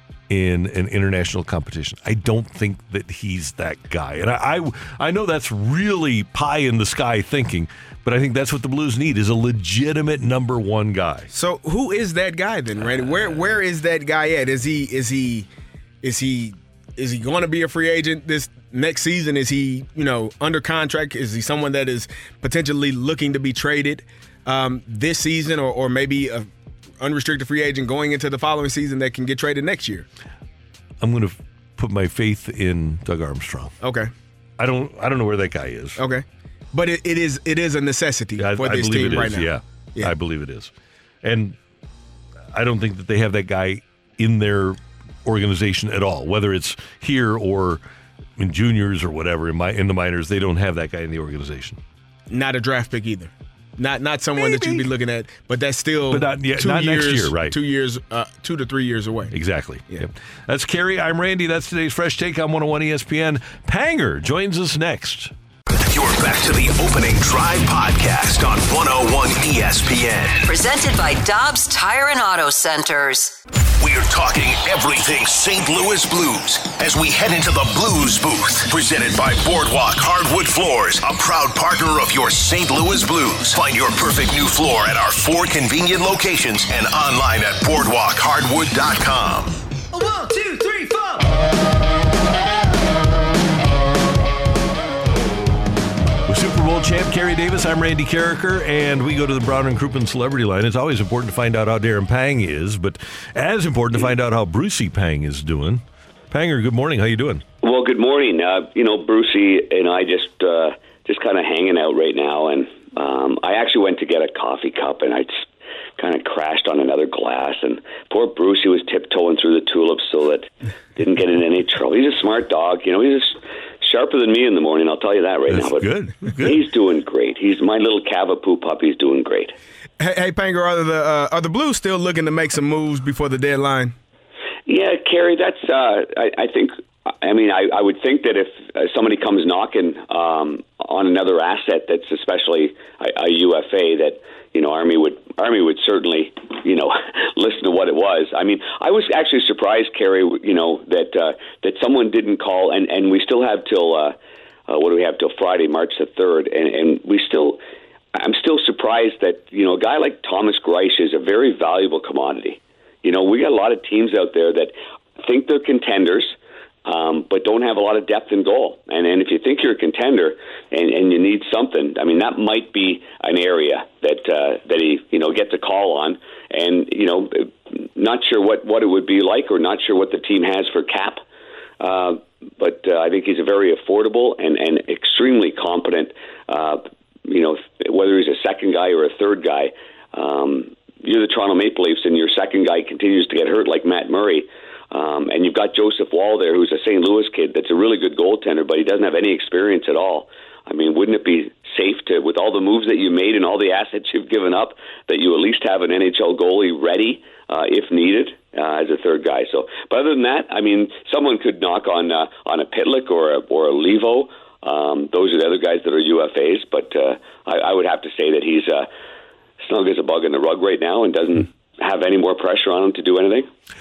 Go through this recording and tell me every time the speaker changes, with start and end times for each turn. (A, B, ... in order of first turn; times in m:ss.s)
0:00.3-0:11.3 A
0:11.3-0:15.5 B
0:16.0-0:26.5 B
0:27.0-0:30.1 B
0:31.0-0:33.7 A
0:33.8-0:34.1 B
0:34.6-0:36.0 A
0:36.0-0:40.1 B
0:38.4-0:40.7 A
0:41.2-0:41.6 A
0:42.5-0:47.8 A
0:48.4-0:51.8 A
0:52.3-0:59.3 B
0:54.4-0:54.9 A
0:56.1-0:57.6 A
0:59.3-1:05.3 A
1:05.9-1:10.4 C
1:10.4-1:13.4 D
1:13.8-1:29.6 C
1:36.3-1:47.4 A
1:47.6-1:55.4 E
1:56.0-2:05.9 E
2:05.5-2:06.6 A
2:06.4-2:09.5 E
2:10.0-2:13.9 B
2:14.7-2:34.2 E
2:34.7-2:37.6 E
2:38.1-3:01.2 E
3:01.8-3:38.9 E
3:39.6-3:43.5 E